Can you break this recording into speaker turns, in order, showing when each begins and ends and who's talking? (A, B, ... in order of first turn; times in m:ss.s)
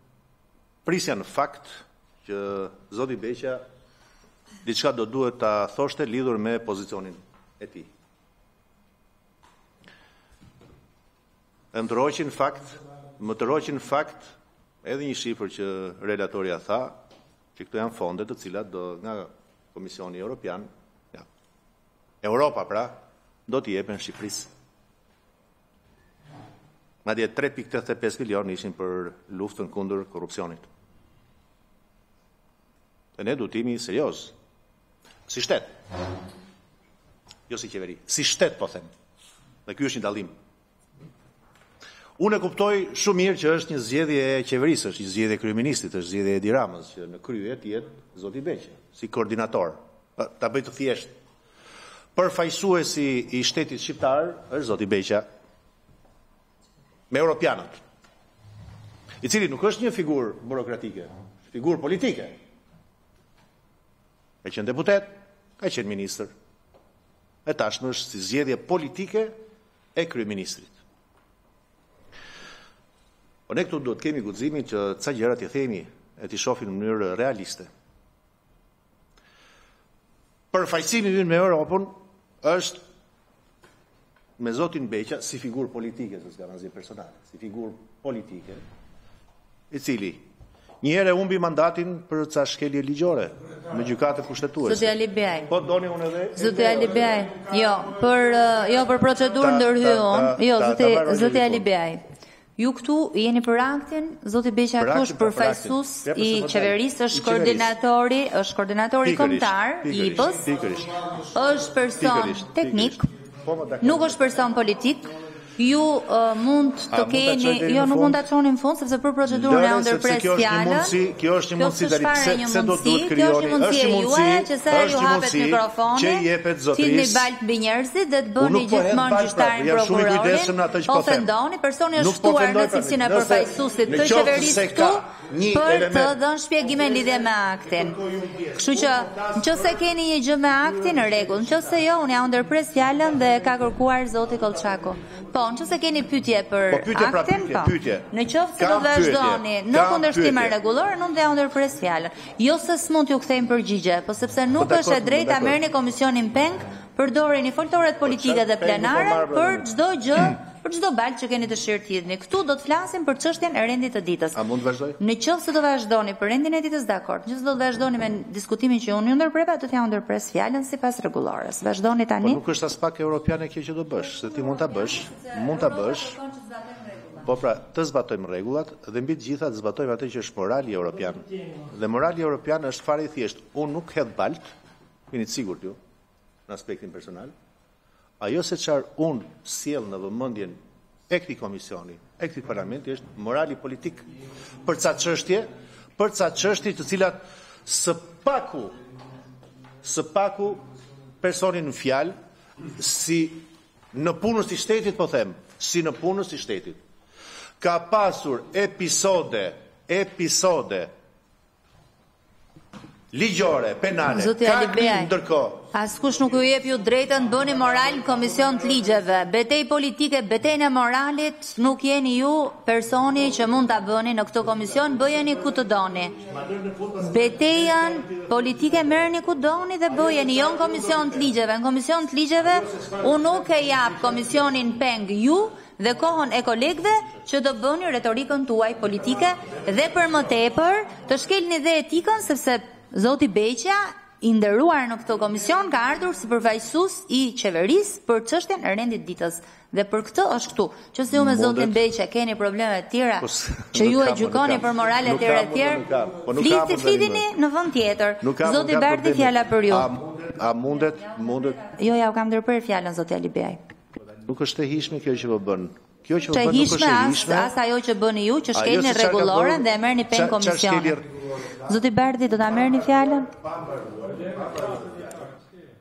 0:00.8-0:01.7 A
0:02.2-0:03.6 A
0:04.6-0:07.9 A
0:11.7-0:17.0 A
0:17.6-0:21.3 A
0:22.2-0:24.5 A
0:27.0-0:30.7 A
0:33.2-0:34.3 A
0:35.3-0:35.7 A
0:37.5-0:38.9 A
0:39.7-0:40.3 A
0:42.2-0:51.1 A
0:52.2-0:55.3 A
0:57.1-0:57.8 A
0:59.2-1:02.3 A
1:04.4-1:06.3 A
1:07.5-1:09.4 A
1:10.0-1:10.8 A
1:13.5-1:17.7 A
1:20.5-1:22.8 A
1:24.4-1:28.6 A
1:29.7-1:30.2 A
1:30.8-1:34.9 A
1:34.6-1:35.5 B
1:35.5-1:37.2 A
1:36.4-1:42.0 B
1:39.4-1:41.7 A
1:42.6-1:50.5 B
1:44.8-1:47.7 A
1:49.0-1:51.1 A
1:51.3-1:53.1 B
1:52.0-1:54.2 A
1:53.8-2:01.0 B
1:56.9-1:58.2 A
1:59.3-2:07.3 A
2:01.6-2:44.4 B
2:08.4-2:11.3 A
2:12.0-2:16.2 A
2:18.2-2:18.5 A
2:26.7-2:30.6 A
2:34.6-2:35.6 A
2:38.0-2:39.7 A
2:44.4-2:45.0 A
2:45.0-2:52.4 B
2:52.2-2:56.2 A
2:54.2-2:57.3 B
2:57.2-3:04.4 A
3:05.1-3:05.8 A
3:06.5-3:07.3 A
3:08.2-3:10.6 A
3:11.1-3:14.1 A
3:14.6-3:18.8 A
3:19.8-3:20.6 A
3:21.2-3:22.1 A
3:22.8-3:26.8 A
3:27.6-3:30.9 A
3:33.1-3:35.7 A
3:34.1-3:35.1 B
3:35.7-3:46.2 B
3:47.0-4:15.8 B
4:11.1-4:11.8 A
4:13.2-4:17.3 A
4:16.4-4:19.9 B
4:18.2-4:21.6 A
4:21.4-4:23.6 B
4:24.2-4:27.5 A
4:26.3-4:31.0 B
4:28.5-4:31.1 A
4:31.6-4:33.3 B